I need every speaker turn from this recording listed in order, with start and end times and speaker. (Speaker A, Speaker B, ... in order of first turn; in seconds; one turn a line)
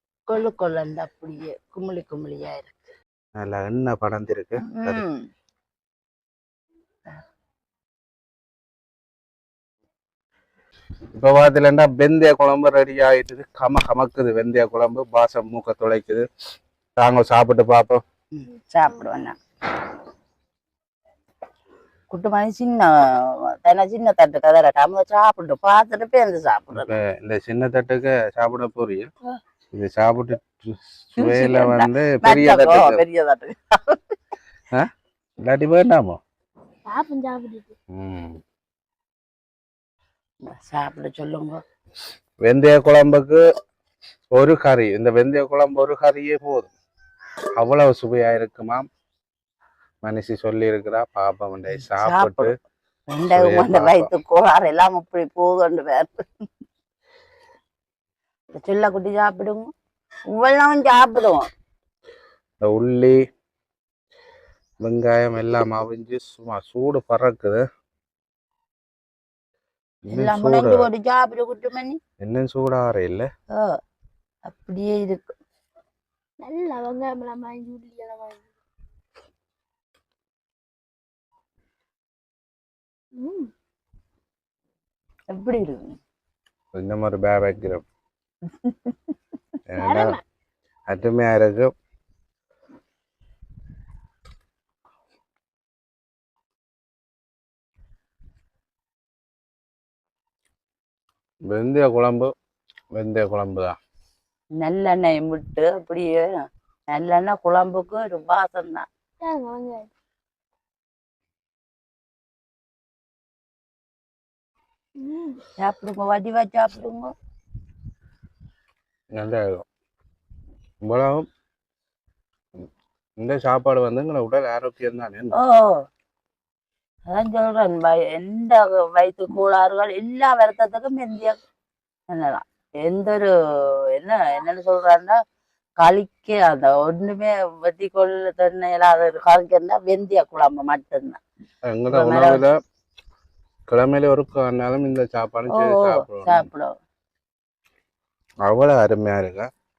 Speaker A: 0.3-2.8
Speaker B: 3.4-5.0
Speaker A: 4.6-5.3
Speaker B: 11.1-16.2
Speaker B: 17.0-18.0
Speaker A: 18.3-19.4
Speaker A: 22.1-26.9
Speaker B: 26.7-29.1
Speaker B: 29.7-33.0
Speaker A: 31.2-34.0
Speaker B: 34.7-36.2
Speaker C: 36.9-37.7
Speaker B: 37.9-38.4
Speaker A: 40.5-41.6
Speaker B: 42.4-43.4
Speaker B: 44.3-46.7
Speaker B: 47.6-48.9
Speaker B: 50.0-52.5
Speaker A: 51.8-52.5
Speaker A: 53.1-56.2
Speaker B: 53.3-54.1
Speaker A: 58.5-59.7
Speaker A: 60.3-61.5
Speaker B: 62.6-63.1
Speaker B: 64.8-67.6
Speaker B: 70.1-70.9
Speaker A: 70.1-72.0
Speaker B: 72.2-73.3
Speaker A: 74.4-75.3
Speaker C: 76.4-78.5
Speaker C: 83.2-83.5
Speaker A: 85.3-86.0
Speaker B: 86.7-87.8
Speaker B: 89.7-90.2
Speaker C: 89.8-90.2
Speaker B: 90.9-91.7
Speaker B: 101.5-102.3
Speaker B: 102.9-103.8
Speaker A: 104.6-108.8
Speaker C: 109.2-109.9
Speaker C: 115.1-115.3
Speaker A: 115.5-117.1
Speaker B: 119.1-119.7
Speaker B: 120.8-121.3
Speaker B: 123.2-125.4
Speaker A: 125.3-125.8
Speaker A: 127.1-131.4
Speaker A: 132.1-133.3
Speaker A: 133.9-135.1
Speaker A: 135.8-141.2
Speaker B: 141.7-142.6
Speaker A: 141.9-142.4
Speaker B: 143.7-146.4
Speaker A: 145.5-146.7
Speaker B: 148.4-149.5